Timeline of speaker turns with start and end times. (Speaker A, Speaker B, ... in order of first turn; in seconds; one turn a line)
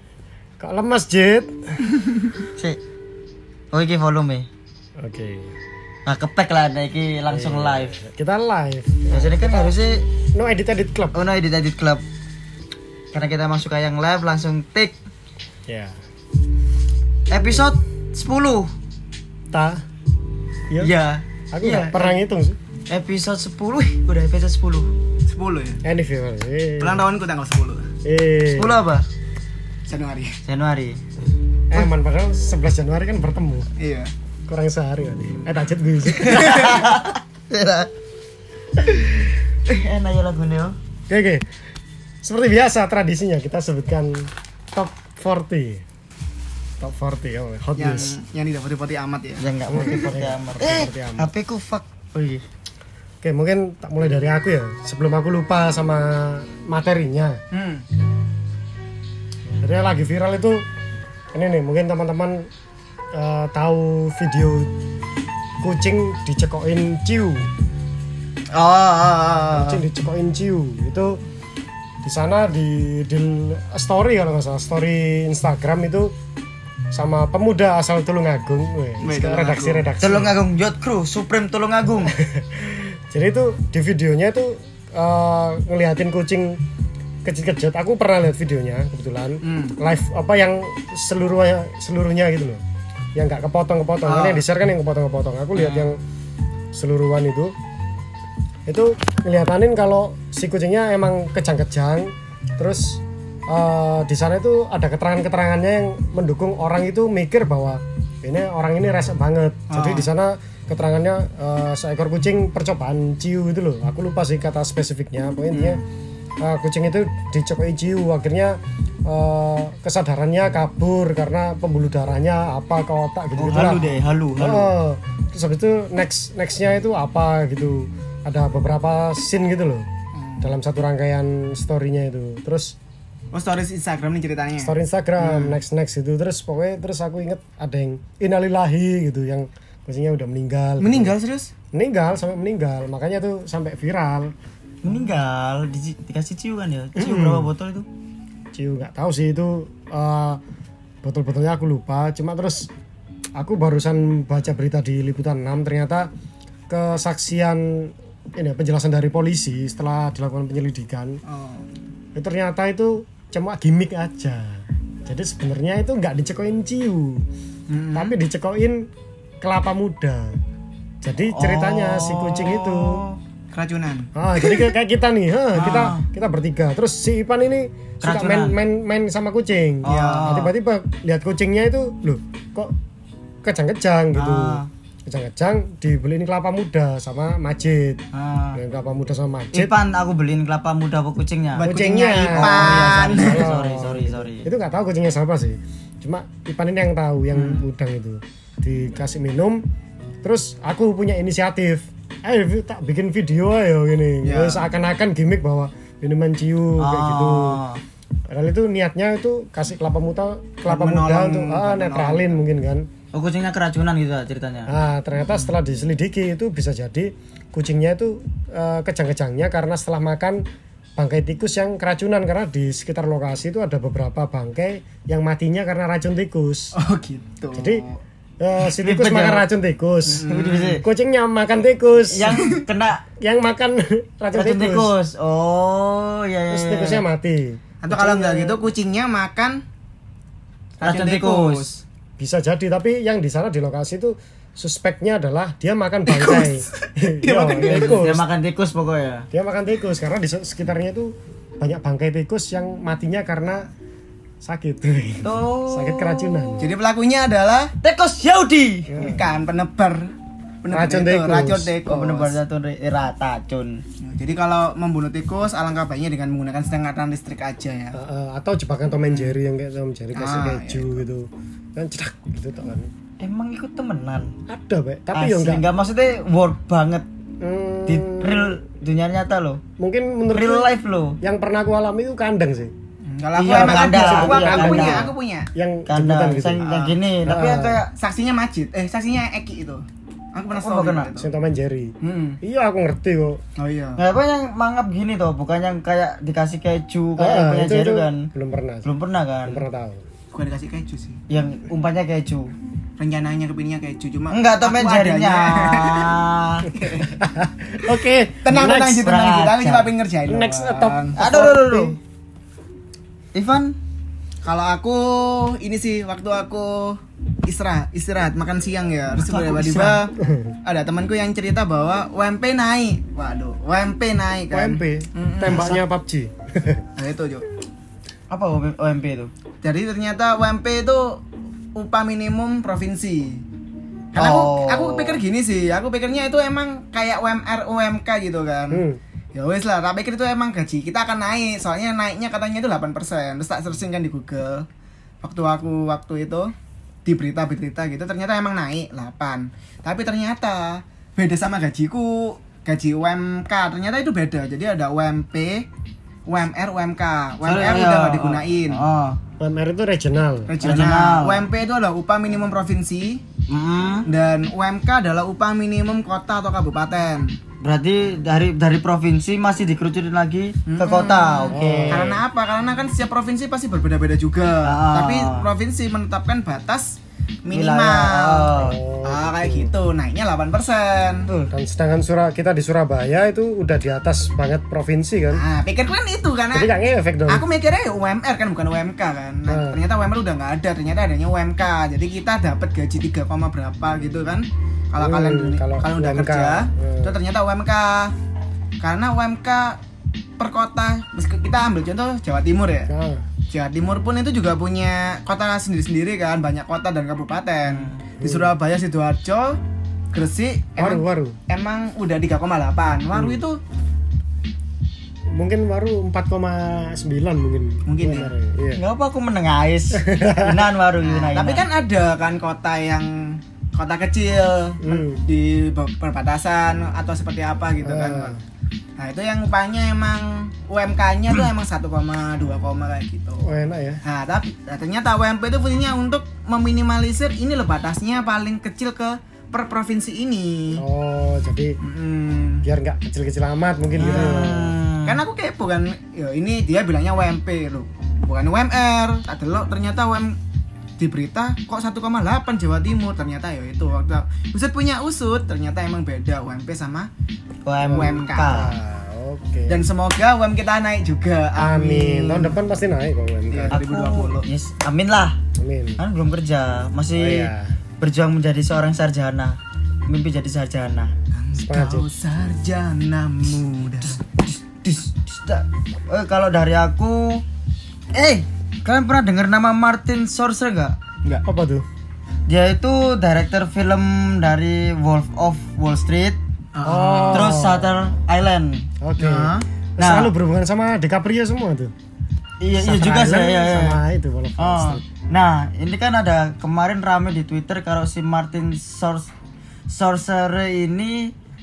Speaker A: 0.6-1.8
Speaker B: 3.7-4.5
Speaker A: 5.0-5.5
Speaker B: 6.0-8.0
Speaker A: 7.3-9.8
Speaker B: 9.1-10.0
Speaker A: 10.3-11.2
Speaker B: 11.1-12.0
Speaker B: 13.1-14.9
Speaker A: 15.7-16.0
Speaker B: 17.3-18.7
Speaker A: 19.5-19.8
Speaker B: 20.8-22.1
Speaker A: 21.5-22.6
Speaker B: 22.9-24.9
Speaker C: 25.3-25.8
Speaker A: 25.8-27.0
Speaker C: 26.8-27.9
Speaker A: 28.0-28.8
Speaker B: 28.5-29.0
Speaker C: 29.9-30.4
Speaker B: 30.4-31.0
Speaker A: 31.7-33.7
Speaker C: 33.8-34.1
Speaker A: 34.5-37.0
Speaker C: 36.2-36.8
Speaker B: 36.3-37.9
Speaker B: 38.8-40.8
Speaker A: 41.1-41.4
Speaker A: 42.2-45.8
Speaker A: 46.8-48.2
Speaker C: 47.8-49.4
Speaker B: 49.4-52.4
Speaker A: 49.7-51.3
Speaker A: 53.2-57.4
Speaker C: 57.5-57.8
Speaker A: 59.6-60.7
Speaker A: 61.3-62.5
Speaker A: 63.1-64.7
Speaker A: 65.6-67.5
Speaker B: 68.5-69.8
Speaker A: 69.5-71.2
Speaker A: 72.0-76.1
Speaker A: 76.9-80.4
Speaker C: 79.0-79.9
Speaker B: 80.0-82.1
Speaker A: 82.0-86.6
Speaker A: 87.2-92.6
Speaker C: 89.4-89.7
Speaker A: 93.1-96.0
Speaker C: 94.0-94.4
Speaker B: 95.5-95.8
Speaker A: 96.7-97.5
Speaker A: 98.7-115.8
Speaker C: 109.7-110.1
Speaker C: 115.5-115.8
Speaker A: 116.4-129.9
Speaker B: 123.4-124.7
Speaker C: 130.2-130.5
Speaker A: 130.4-132.8
Speaker C: 133.3-135.6
Speaker A: 134.6-141.1
Speaker C: 140.8-141.5
Speaker A: 141.7-144.3
Speaker B: 144.8-147.9
Speaker A: 146.9-147.5
Speaker A: 148.5-150.4
Speaker A: 151.0-152.7
Speaker A: 153.3-156.1
Speaker A: 156.7-161.2
Speaker C: 161.2-161.7
Speaker A: 162.1-167.2
Speaker C: 167.7-168.1
Speaker A: 167.9-168.9
Speaker A: 169.4-170.4
Speaker A: 171.0-173.0
Speaker B: 171.2-173.2
Speaker C: 173.5-174.1
Speaker A: 174.1-182.7
Speaker B: 175.5-176.0
Speaker B: 178.0-178.6
Speaker B: 179.8-180.5
Speaker C: 179.8-180.4
Speaker A: 183.4-189.8
Speaker B: 184.1-184.7
Speaker B: 188.1-188.6
Speaker B: 189.5-194.5
Speaker C: 191.6-193.4
Speaker A: 191.6-199.6
Speaker C: 197.3-197.6
Speaker A: 200.2-207.6
Speaker C: 204.2-204.7
Speaker B: 206.8-207.8
Speaker A: 208.3-212.9
Speaker C: 210.7-212.4
Speaker B: 213.1-214.7
Speaker A: 214.7-220.4
Speaker A: 221.0-226.7
Speaker C: 226.7-228.0
Speaker A: 227.5-227.8
Speaker A: 228.4-230.2
Speaker B: 228.7-229.4
Speaker C: 230.1-230.8
Speaker B: 230.2-230.8
Speaker A: 230.8-232.5
Speaker B: 232.1-233.0
Speaker A: 233.2-234.9
Speaker B: 234.3-237.0
Speaker A: 236.5-238.6
Speaker C: 237.8-239.6
Speaker C: 240.8-241.8
Speaker B: 240.8-241.8
Speaker A: 242.2-248.2
Speaker C: 246.1-248.0
Speaker B: 247.6-249.3
Speaker A: 249.3-253.7
Speaker A: 254.4-256.7
Speaker B: 255.2-256.6
Speaker C: 256.6-257.7
Speaker B: 257.8-258.9
Speaker A: 258.9-259.2
Speaker C: 259.0-260.1
Speaker C: 260.6-262.4
Speaker A: 260.7-261.7
Speaker B: 261.9-263.8
Speaker C: 264.0-268.0
Speaker A: 267.9-272.9
Speaker C: 269.1-269.3
Speaker C: 270.1-271.0
Speaker B: 273.2-274.3
Speaker A: 274.5-275.6
Speaker B: 275.1-277.1
Speaker A: 277.4-278.6
Speaker B: 277.9-279.6
Speaker A: 279.8-282.7
Speaker B: 280.3-281.2
Speaker C: 283.1-285.5
Speaker B: 283.4-285.1
Speaker A: 283.5-286.6
Speaker B: 285.9-287.9
Speaker C: 286.6-287.0
Speaker A: 287.2-287.8
Speaker C: 287.9-291.3
Speaker B: 290.5-291.1
Speaker A: 291.1-293.4
Speaker C: 292.0-292.4
Speaker C: 293.6-294.0
Speaker B: 294.0-298.3
Speaker A: 297.2-298.9
Speaker B: 298.8-299.6
Speaker A: 299.4-300.0
Speaker C: 300.3-301.2
Speaker B: 301.3-302.5
Speaker C: 303.0-307.2
Speaker B: 304.3-306.7
Speaker A: 307.0-309.0
Speaker C: 308.4-311.6
Speaker B: 309.0-309.9
Speaker A: 310.3-312.0
Speaker B: 311.1-311.9
Speaker B: 313.3-313.8
Speaker C: 314.4-320.1
Speaker B: 319.2-320.0
Speaker A: 320.2-320.6
Speaker C: 320.6-325.8
Speaker A: 324.5-326.8
Speaker C: 327.0-327.4
Speaker B: 328.3-329.3
Speaker C: 329.6-331.2
Speaker C: 331.7-333.4
Speaker C: 334.1-344.7
Speaker B: 334.1-335.2
Speaker A: 338.7-339.0
Speaker C: 345.2-346.5
Speaker C: 347.0-355.7
Speaker C: 356.2-358.8
Speaker B: 357.4-359.2
Speaker A: 359.4-360.6
Speaker C: 360.5-363.2
Speaker B: 360.6-361.4
Speaker B: 363.5-364.1
Speaker C: 364.1-367.4
Speaker B: 367.6-372.1
Speaker C: 370.7-381.3
Speaker A: 371.5-372.2
Speaker B: 374.6-375.5
Speaker B: 377.5-378.8
Speaker A: 378.5-379.7
Speaker A: 381.5-385.4
Speaker C: 385.3-386.7
Speaker A: 386.5-387.4
Speaker C: 387.3-398.1
Speaker A: 389.5-389.8
Speaker A: 395.0-397.2
Speaker C: 398.8-399.8
Speaker C: 400.4-402.9
Speaker A: 402.9-403.3
Speaker C: 403.5-409.6
Speaker B: 407.6-408.0
Speaker A: 408.2-408.5
Speaker C: 410.1-413.6
Speaker A: 410.8-411.4
Speaker A: 413.1-413.4
Speaker A: 415.3-418.8
Speaker C: 417.9-418.3
Speaker B: 418.7-421.6
Speaker A: 419.9-420.7
Speaker C: 421.0-428.3
Speaker A: 424.8-425.2
Speaker A: 427.8-428.4
Speaker C: 429.0-433.5
Speaker A: 433.4-434.0
Speaker C: 434.0-440.8
Speaker A: 440.7-441.8
Speaker C: 441.8-442.6
Speaker A: 442.6-444.7
Speaker C: 444.0-450.4
Speaker B: 444.0-445.2
Speaker C: 451.0-457.1
Speaker B: 457.6-458.7
Speaker A: 457.8-459.9
Speaker C: 457.9-458.7
Speaker C: 459.7-462.6
Speaker A: 461.6-463.8
Speaker C: 463.5-464.5
Speaker B: 463.7-465.4
Speaker A: 465.6-466.0
Speaker B: 466.0-471.1
Speaker A: 467.1-467.8
Speaker C: 471.3-474.2
Speaker A: 471.6-472.1
Speaker B: 474.1-477.4
Speaker B: 478.1-481.0
Speaker A: 481.4-481.9
Speaker B: 482.5-486.4
Speaker C: 486.7-487.6
Speaker A: 486.8-488.2
Speaker B: 487.3-488.9
Speaker A: 489.0-491.9
Speaker C: 489.2-489.6
Speaker B: 490.0-490.3
Speaker B: 492.6-494.0
Speaker A: 492.7-495.1
Speaker B: 494.6-499.3
Speaker B: 499.9-501.3